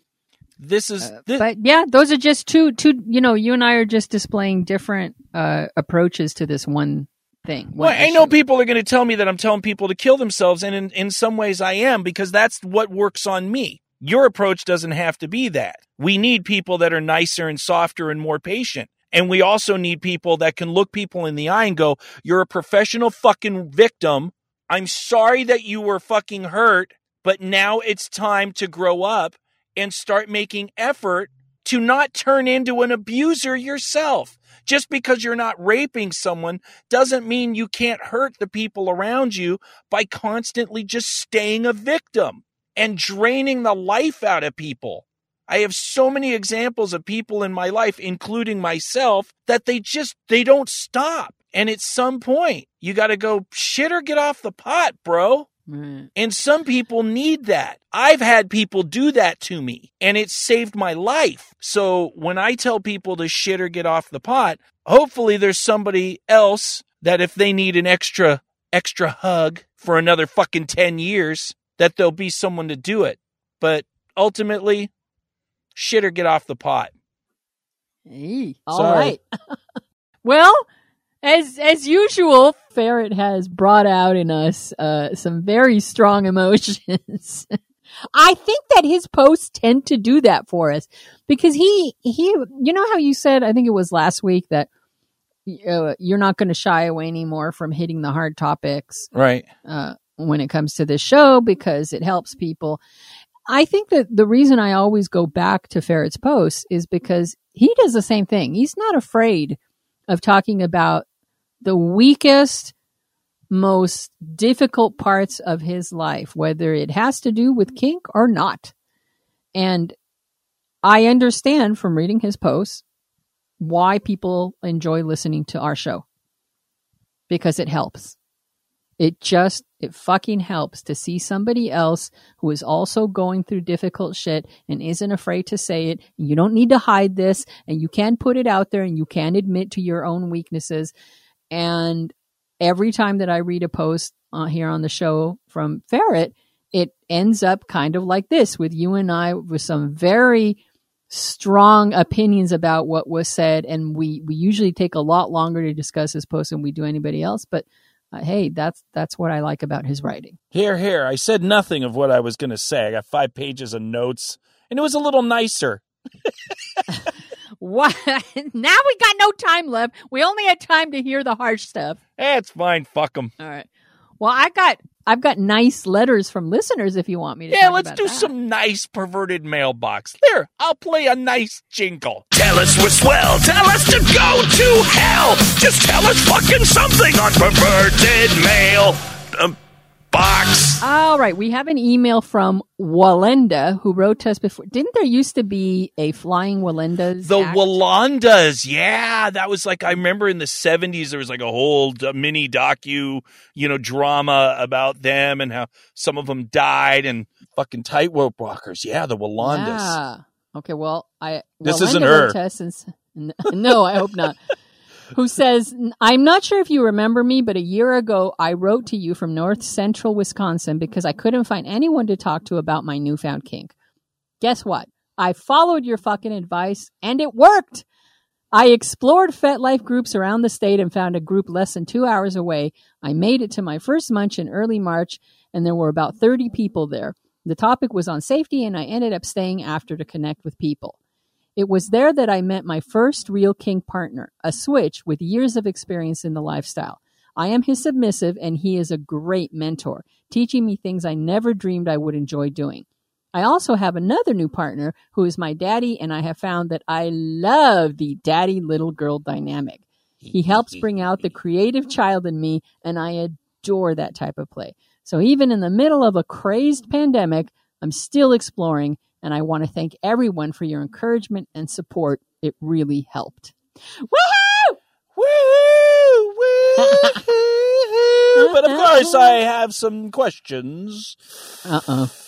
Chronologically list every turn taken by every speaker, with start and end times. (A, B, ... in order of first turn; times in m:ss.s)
0:00.6-0:01.5 A
0:01.0-0:08.3 B
0:07.8-0:55.5 A
0:55.7-0:56.1 B
0:56.2-1:14.9 A
1:15.8-1:16.9 A
1:18.1-1:19.2 B
1:18.7-1:19.2 A
1:20.2-1:20.7 B
1:21.2-1:27.5 B
1:28.1-1:34.7 B
1:35.5-1:39.1 B
1:39.1-1:39.5 A
1:39.7-1:42.8 B
1:43.5-1:49.6 B
1:50.1-1:51.0 B
1:51.6-1:52.7 B
1:53.5-1:58.7 B
1:59.6-1:59.9 B
2:00.8-2:02.8 B
2:03.6-2:06.0 B
2:07.3-2:08.2 B
2:09.0-2:20.9 B
2:21.5-2:30.6 B
2:31.1-2:40.4 B
2:40.5-2:46.8 A
2:47.6-2:52.0 B
2:52.2-2:53.3 A
2:53.4-2:53.7 B
2:54.2-2:58.3 B
2:57.5-3:02.3 A
3:02.4-3:09.5 C
3:10.1-3:10.8 C
3:10.8-3:17.8 B
3:17.2-3:30.0 A
3:29.4-3:34.5 B
3:31.6-3:32.4 A
3:35.1-3:43.7 B
3:44.4-3:47.8 B
3:48.5-4:01.0 B
4:01.6-4:34.8 B
4:20.2-4:20.8 A
4:35.2-4:41.2 A
4:36.8-4:37.2 B
4:38.4-4:39.4 B
4:41.6-4:42.1 B